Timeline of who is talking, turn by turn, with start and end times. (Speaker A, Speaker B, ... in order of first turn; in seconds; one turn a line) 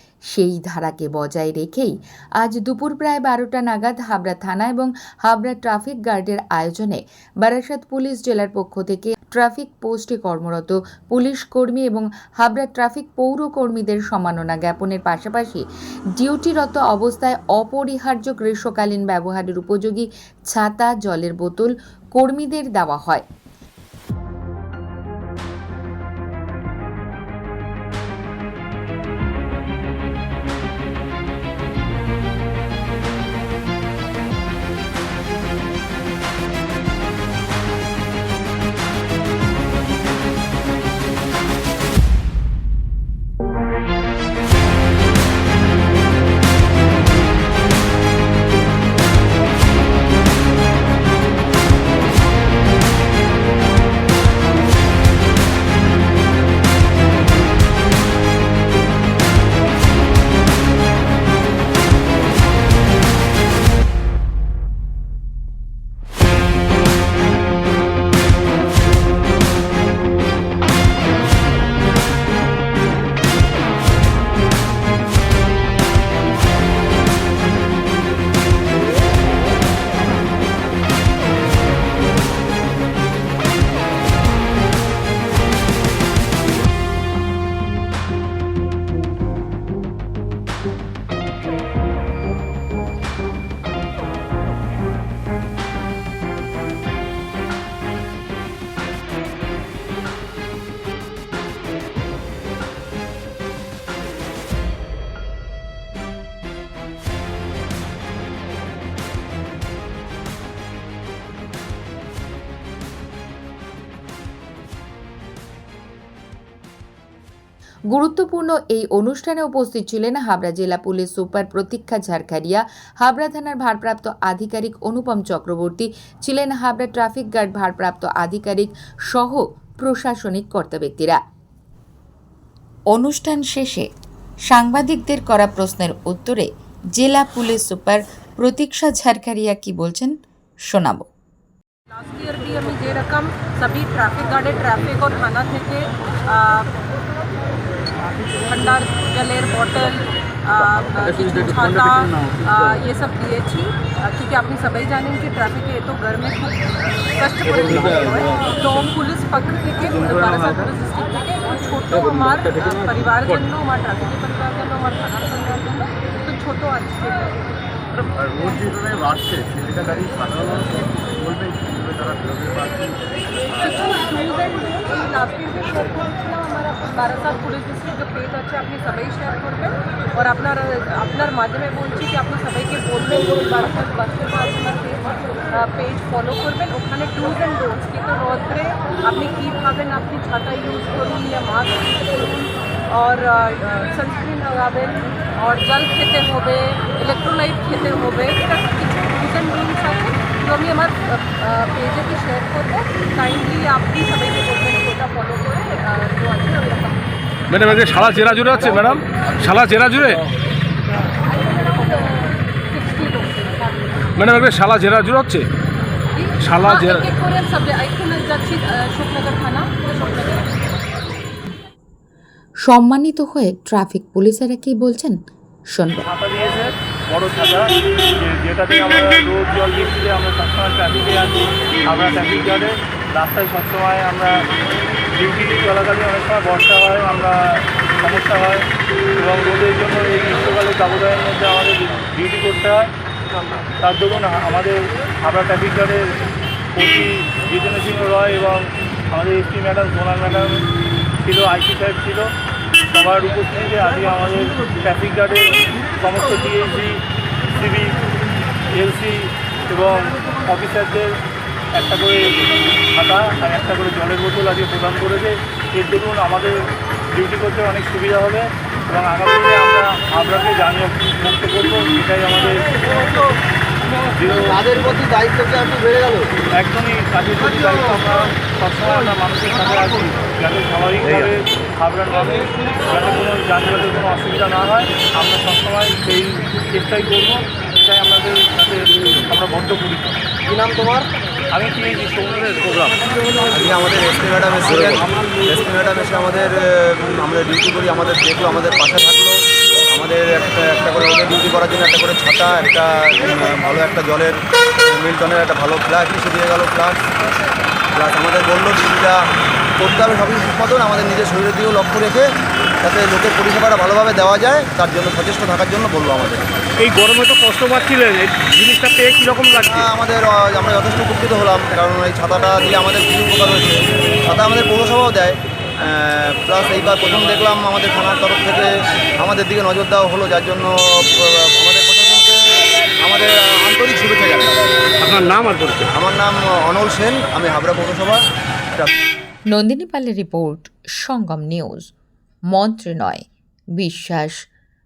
Speaker A: 0.3-23.2
Speaker A: 117.9-131.2
Speaker A: 132.9-133.9
Speaker A: 134.5-141.1
Speaker B: 141.9-146.8
Speaker B: 148.4-167.4
Speaker C: 168.3-172.6
Speaker B: 173.5-207.0
Speaker D: 207.5-210.2
Speaker B: 211.4-214.1
Speaker D: 214.2-215.5
Speaker B: 216.1-220.4
Speaker D: 216.4-217.0
Speaker A: 222.6-225.2
Speaker A: 225.7-226.1
Speaker E: 226.0-234.4
Speaker E: 235.1-242.9
Speaker E: 243.8-246.2
Speaker E: 246.7-250.7
Speaker E: 251.2-252.3
Speaker E: 252.9-258.0
Speaker E: 258.7-261.2
Speaker E: 261.7-272.7
Speaker E: 274.1-274.7
Speaker C: 274.7-276.2
Speaker E: 276.5-290.2
Speaker E: 291.5-292.9
Speaker C: 293.5-299.4
Speaker C: 299.9-307.1
Speaker C: 307.9-309.2
Speaker C: 309.8-316.5
Speaker D: 316.8-319.8
Speaker C: 319.6-334.5
Speaker D: 335.0-335.9
Speaker C: 335.9-338.2
Speaker A: 339.5-341.9
Speaker A: 342.5-344.5